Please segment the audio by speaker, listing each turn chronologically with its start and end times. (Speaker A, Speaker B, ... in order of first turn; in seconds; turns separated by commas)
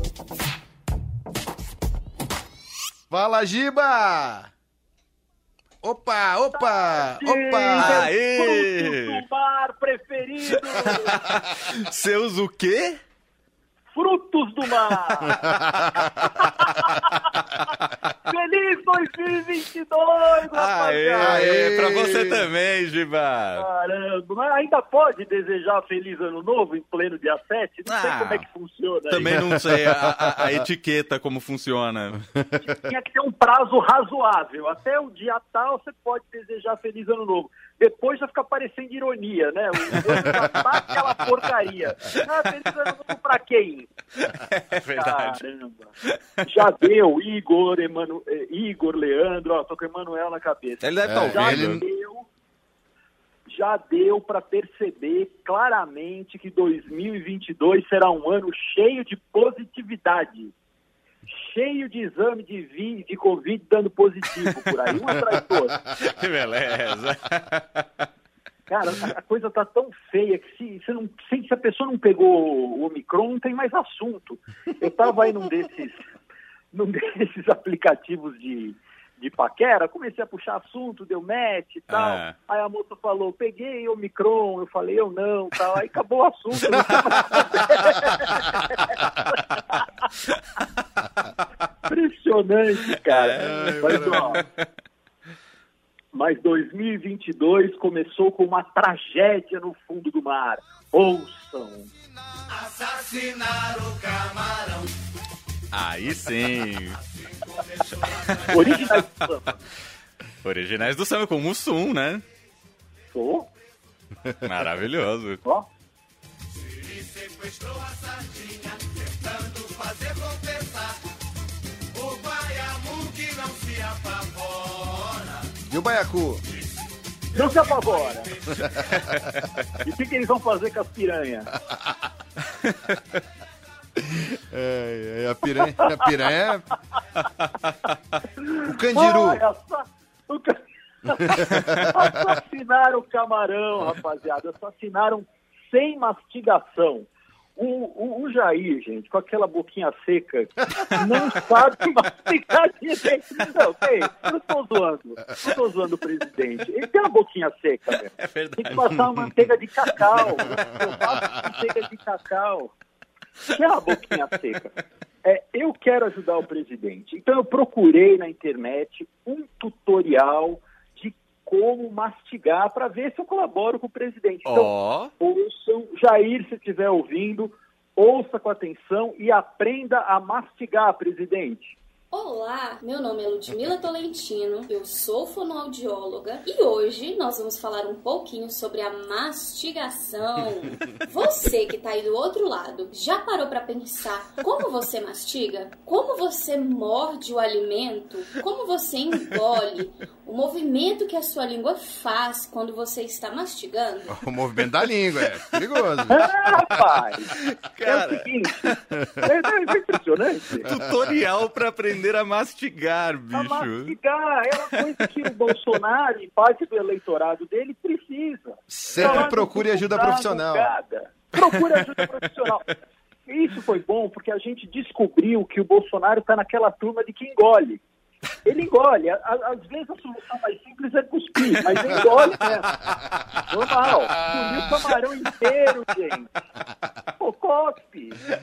Speaker A: 3.1-4.5, Speaker A: 5.8-8.1, Speaker B: 6.5-11.2, Speaker C: 7.7-9.2, Speaker C: 10.5-13.0, Speaker B: 13.9-15.4, Speaker A: 15.3-16.0, Speaker B: 16.1-17.3, Speaker B: 18.3-21.4, Speaker C: 20.5-23.6, Speaker A: 21.2-22.5, Speaker B: 23.5-29.3, Speaker C: 27.9-28.4, Speaker C: 29.1-32.2, Speaker A: 29.2-30.5, Speaker A: 32.3-32.6, Speaker B: 32.6-43.9, Speaker A: 40.1-40.4, Speaker C: 44.3-45.4, Speaker B: 44.9-52.3, Speaker C: 50.8-51.8, Speaker A: 51.0-51.8, Speaker B: 53.5-60.5, Speaker B: 61.3-65.8, Speaker C: 66.0-68.1, Speaker B: 68.7-76.0, Speaker B: 76.7-89.8, Speaker C: 81.9-82.3, Speaker B: 91.8-94.4, Speaker C: 93.1-94.6, Speaker A: 93.4-94.4, Speaker B: 96.1-101.9, Speaker C: 102.5-104.9, Speaker C: 105.7-107.0, Speaker C: 107.6-109.0, Speaker B: 108.5-109.6, Speaker C: 110.4-112.2, Speaker B: 113.1-113.5, Speaker C: 114.4-115.4, Speaker C: 116.9-120.9, Speaker C: 121.9-125.4, Speaker A: 125.7-126.4, Speaker B: 127.3-128.3, Speaker A: 128.6-129.4, Speaker C: 128.7-129.7, Speaker B: 129.8-131.5, Speaker C: 132.6-133.0, Speaker A: 134.1-136.7, Speaker B: 135.6-136.1, Speaker B: 138.4-162.7, Speaker A: 138.6-139.4, Speaker A: 141.3-141.9, Speaker C: 158.2-159.3, Speaker B: 163.5-181.8, Speaker C: 174.4-175.1, Speaker D: 182.1-204.2, Speaker A: 204.1-206.3, Speaker B: 206.1-210.7, Speaker C: 207.4-208.8, Speaker A: 208.9-209.3, Speaker C: 210.6-213.9, Speaker A: 210.7-211.0, Speaker B: 213.3-222.7, Speaker A: 218.7-220.7, Speaker C: 219.0-219.3, Speaker B: 223.2-227.8, Speaker B: 228.4-232.8, Speaker B: 233.5-236.3, Speaker B: 237.2-238.2